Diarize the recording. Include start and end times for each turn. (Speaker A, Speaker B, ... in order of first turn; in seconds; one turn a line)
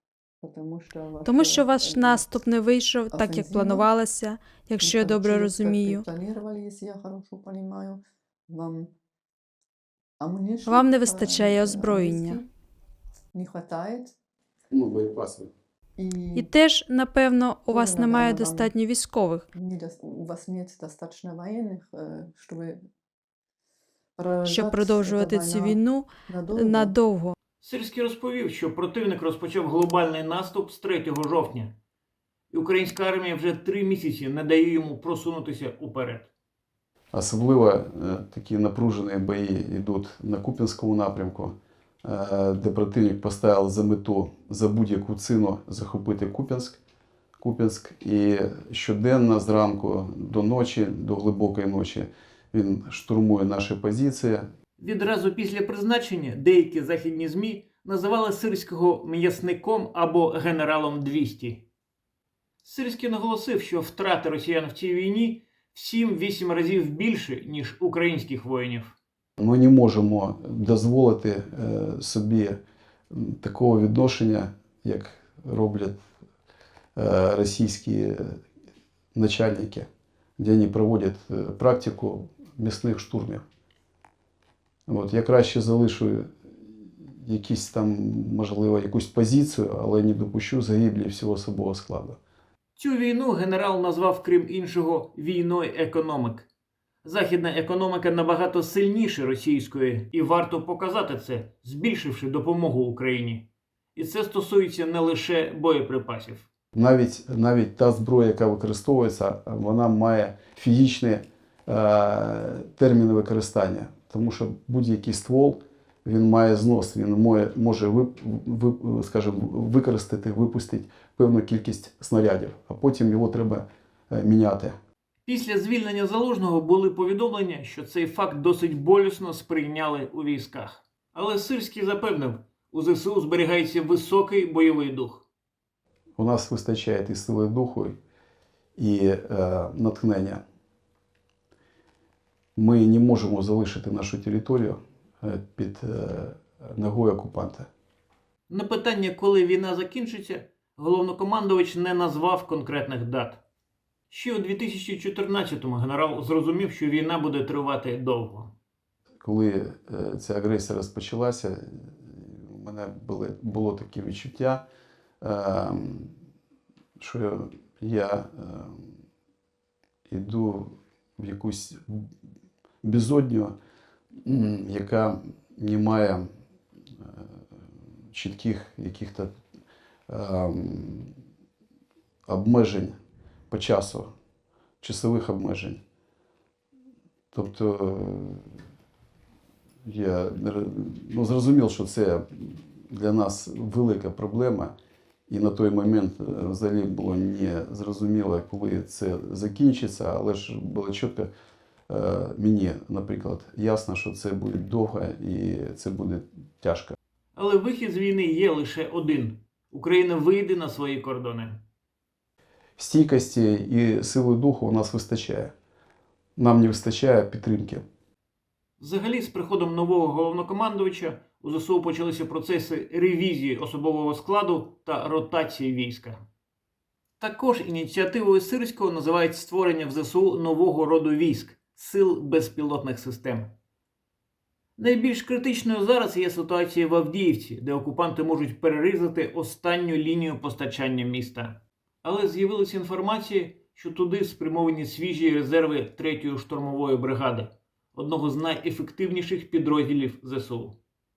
Speaker A: 0.4-2.4
Speaker B: 1.2-6.0
Speaker A: 3.1-3.9
Speaker A: 4.8-8.9
Speaker A: 10.2-12.4
Speaker B: 10.7-12.4
Speaker A: 13.3-14.1
Speaker C: 14.7-15.5
Speaker A: 16.0-16.5
Speaker B: 16.3-19.4
Speaker A: 17.7-18.7
Speaker A: 19.5-22.8
Speaker A: 24.2-26.9
Speaker B: 24.4-27.3
Speaker D: 27.6-31.7
Speaker D: 32.5-36.3
Speaker C: 37.1-46.8
Speaker C: 47.4-54.5
Speaker D: 54.8-61.6
Speaker D: 62.6-68.9
Speaker C: 69.4-72.6
Speaker C: 73.1-76.0
Speaker C: 77.0-78.4
Speaker C: 79.1-79.9
Speaker C: 80.4-83.4
Speaker C: 84.9-92.2
Speaker D: 92.8-96.5
Speaker D: 97.0-106.5
Speaker C: 106.7-124.7
Speaker D: 125.2-135.2
Speaker C: 136.2-138.0
Speaker C: 138.8-140.4
Speaker C: 142.6-147.7
Speaker D: 148.5-153.4
Speaker D: 154.1-158.5
Speaker C: 159.2-164.6
Speaker C: 165.2-166.2
Speaker C: 167.0-168.9
Speaker C: 170.1-172.1
Speaker C: 172.8-173.5
Speaker C: 174.2-176.3
Speaker C: 178.1-179.3
Speaker C: 180.1-181.1
Speaker C: 182.3-183.0
Speaker C: 183.5-184.1
Speaker C: 184.8-185.8
Speaker C: 187.3-188.6
Speaker C: 189.8-194.7
Speaker C: 195.3-201.3
Speaker C: 201.9-206.9
Speaker D: 207.3-211.6
Speaker C: 212.8-215.5
Speaker C: 216.4-217.8
Speaker D: 218.8-226.2
Speaker D: 227.2-233.5
Speaker D: 234.8-250.8